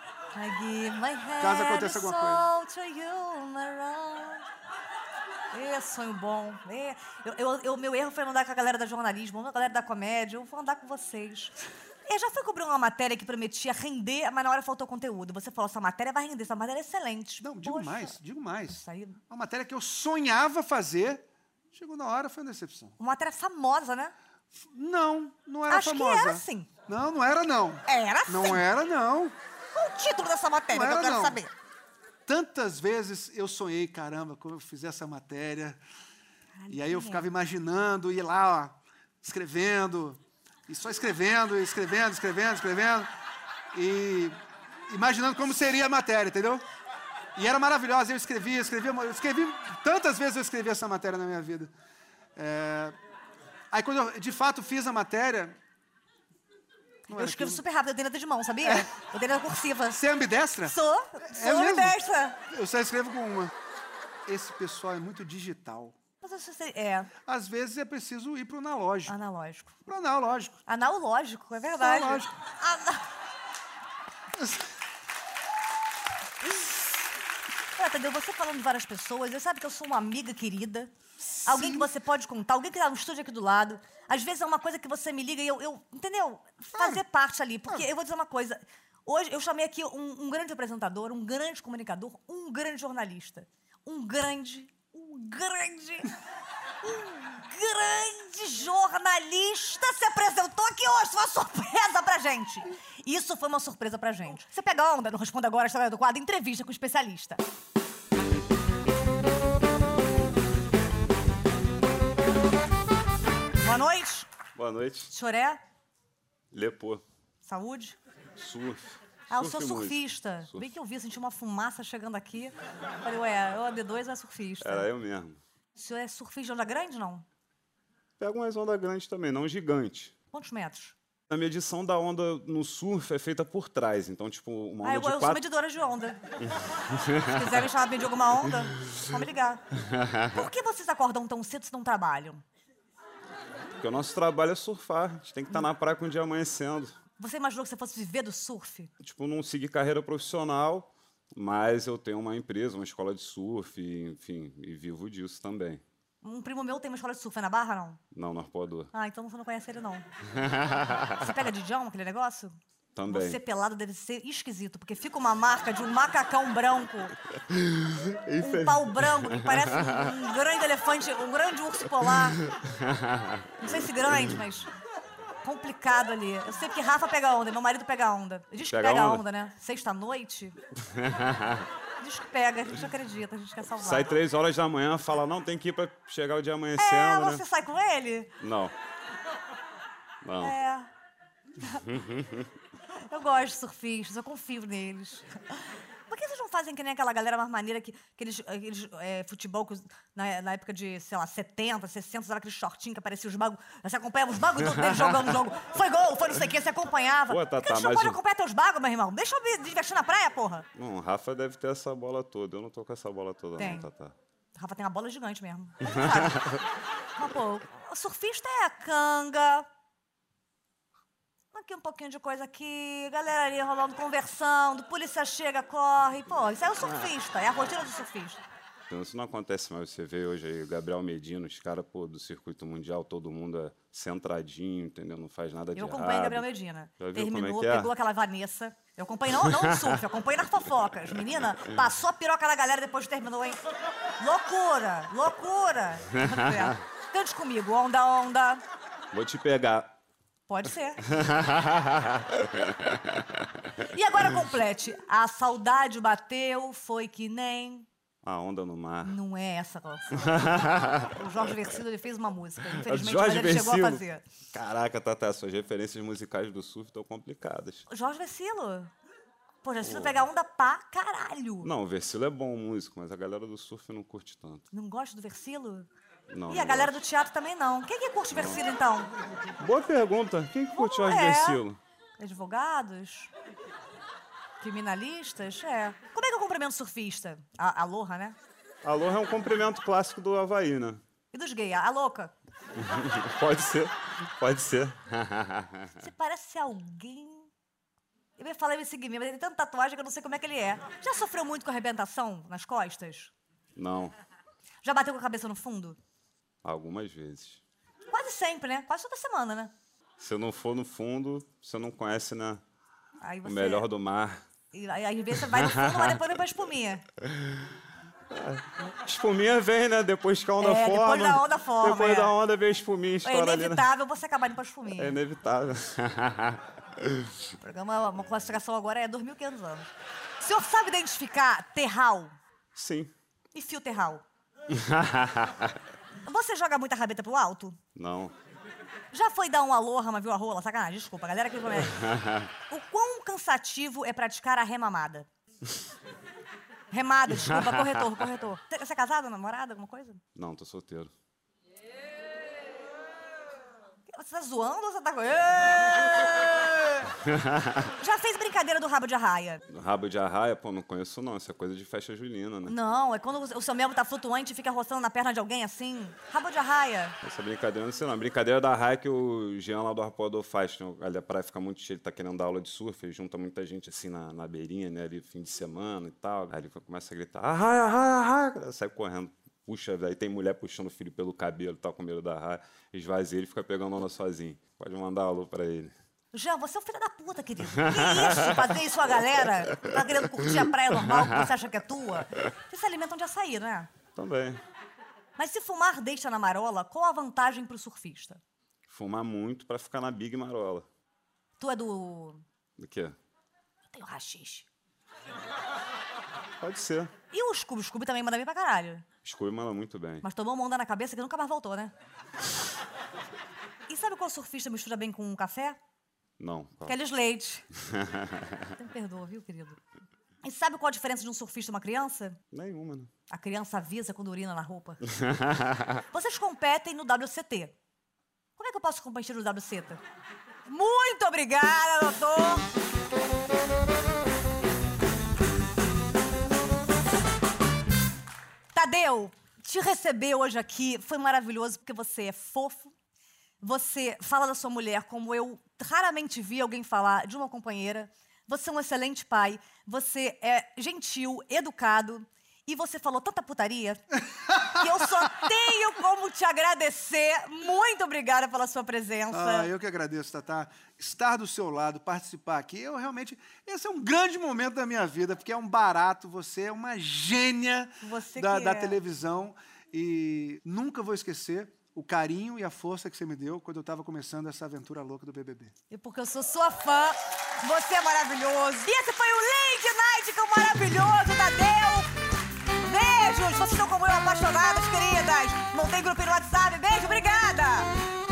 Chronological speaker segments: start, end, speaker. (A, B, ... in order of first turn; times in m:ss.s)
0:00.3-0:04.5 A
0:01.4-0:02.5 B
0:05.5-0:18.2 A
0:17.4-0:23.0 B
0:18.7-0:19.2 A
0:23.0-0:24.1 A
0:24.5-0:29.4 B
0:25.7-0:26.7 A
0:27.9-0:28.6 A
0:29.7-0:31.5 A
0:30.7-0:31.4 B
0:32.3-0:35.8 B
0:36.6-0:37.3 A
0:36.7-0:43.1 B
0:43.7-0:46.6 B
0:47.4-0:51.7 B
0:52.4-0:53.0 B
0:53.7-0:55.6 B
0:57.1-0:57.6 B
0:57.1-1:00.0 A
0:58.6-0:58.9 B
0:59.9-1:02.0 B
1:00.6-1:02.4 A
1:02.5-1:03.5 B
1:04.3-1:06.0 B
1:06.2-1:07.1 A
1:07.3-1:09.1 B
1:09.1-1:09.8 A
1:09.9-1:10.6 B
1:10.7-1:13.0 A
1:11.8-1:12.3 B
1:14.4-1:14.7 B
1:17.8-1:20.9 A
1:21.4-1:21.9 B
1:21.4-1:36.1 A
1:26.8-1:27.0 B
1:36.8-1:47.4 A
1:53.6-1:54.3 A
1:54.6-1:55.1 C
1:55.1-1:55.6 A
1:56.5-1:57.0 C
1:57.4-1:58.0 A
1:58.4-2:00.7 C
1:59.3-2:04.9 A
2:04.6-2:05.4 C
2:05.8-2:07.2 A
2:08.2-2:10.1 C
2:10.3-2:11.0 A
2:11.3-2:15.4 C
2:14.8-2:16.2 A
2:16.9-2:17.4 C
2:17.3-2:19.6 A
2:19.8-2:20.5 C
2:20.3-2:22.4 A
2:23.8-2:27.0 C
2:27.2-2:28.9 A
2:29.0-2:35.8 C
2:36.2-2:38.0 A
2:38.1-2:38.9 C
2:38.9-2:40.1 A
2:40.3-2:41.3 C
2:41.2-2:42.6 A
2:43.0-2:43.4 C
2:43.1-2:47.1 A
2:47.5-2:50.2 C
2:48.4-2:52.4 A
2:52.4-2:54.2 C
2:53.6-2:54.7 A
2:55.4-3:00.6 A
2:58.7-2:59.2 C
3:00.8-3:01.7 C
3:02.0-3:04.2 A
3:03.8-3:07.4 C
3:06.8-3:08.4 A
3:08.4-3:08.7 C
3:10.2-3:10.6 C
3:10.4-3:10.9 A
3:11.9-3:12.5 C
3:13.0-3:30.7 A
3:24.9-3:25.2 C
3:27.3-3:28.2 C
3:30.8-3:34.1 C
3:33.6-3:33.9 A
3:34.6-3:36.4 A
3:35.9-3:36.6 C
3:37.2-3:39.7 A
3:41.5-3:48.4 A
3:48.9-3:56.5 C
3:55.8-4:03.6 A
3:57.0-3:57.9 C
3:59.5-3:59.8 C
4:04.2-4:08.6 A
4:09.1-4:10.0 C
4:10.5-4:11.0 A
4:11.0-4:13.5 C
4:13.9-4:17.9 A
4:18.2-4:19.2 C
4:19.0-4:24.3 A
4:20.2-4:21.1 C
4:22.8-4:27.8 C
4:27.9-4:28.9 A
4:29.6-4:31.7 A
4:29.8-4:30.2 C
4:31.6-4:34.6 C
4:34.7-4:35.9 A
4:36.3-4:37.0 C
4:36.5-4:39.1 A
4:38.3-4:38.6 C
4:39.6-4:41.8 C
4:40.8-4:41.6 A
4:42.2-4:43.3 A
4:44.6-4:48.4 A
4:48.8-4:51.0 C
4:51.3-4:52.3 A
4:52.8-4:56.0 C
4:56.0-4:57.5 A
4:58.4-5:03.3 A
5:03.8-5:04.2 C
5:04.8-5:06.0 A
5:06.6-5:07.6 C
5:08.1-5:09.7 A
5:10.2-5:12.6 C
5:13.2-5:13.8 A
5:13.4-5:14.4 C
5:14.7-5:17.0 A
5:15.4-5:16.2 C
5:17.2-5:17.7 C
5:18.3-5:23.9 C
5:20.6-5:22.3 A
5:23.2-5:25.2 A
5:25.0-5:27.3 C
5:27.6-5:32.4 A
5:32.8-5:33.1 C
5:33.5-5:34.2 A
5:34.7-5:35.8 C
5:36.2-5:37.8 A
5:38.0-5:38.3 C
5:39.1-5:42.1 A
5:41.8-5:42.5 C
5:42.7-5:45.3 A
5:46.9-5:50.2 A
5:47.4-5:48.0 C
5:50.4-5:51.1 C
5:54.1-5:57.1 A
5:57.1-5:57.9 C
5:58.0-5:59.6 A
5:59.7-6:02.8 C
6:02.7-6:07.2 A
6:07.2-6:25.9 C
6:26.3-6:33.9 A
6:27.8-6:28.7 C
6:29.8-6:31.4 C
6:34.2-6:34.6 C
6:35.4-6:38.4 A
6:38.9-6:40.9 C
6:41.6-6:42.4 A
6:42.8-6:43.2 C
6:43.9-6:44.7 A
6:46.6-6:47.1 C
6:47.3-6:49.1 A
6:49.2-6:50.2 C
6:50.2-6:51.9 A
6:53.9-6:55.8 A
6:56.4-6:57.0 C
6:56.9-6:57.7 A
6:57.8-6:58.6 C
6:58.8-6:59.8 A
7:00.4-7:02.4 A
7:02.5-7:03.1 C
7:03.3-7:05.0 A
7:05.1-7:06.0 C
7:06.1-7:07.8 A
7:08.6-7:10.0 A
7:10.7-7:12.7 A
7:18.7-7:22.9 A
7:23.6-7:34.0 A
7:34.3-7:34.9 B
7:34.7-7:39.7 A
7:39.3-7:55.7 B
7:48.0-7:49.0 A
7:55.9-8:02.1 A
8:02.8-8:07.9 A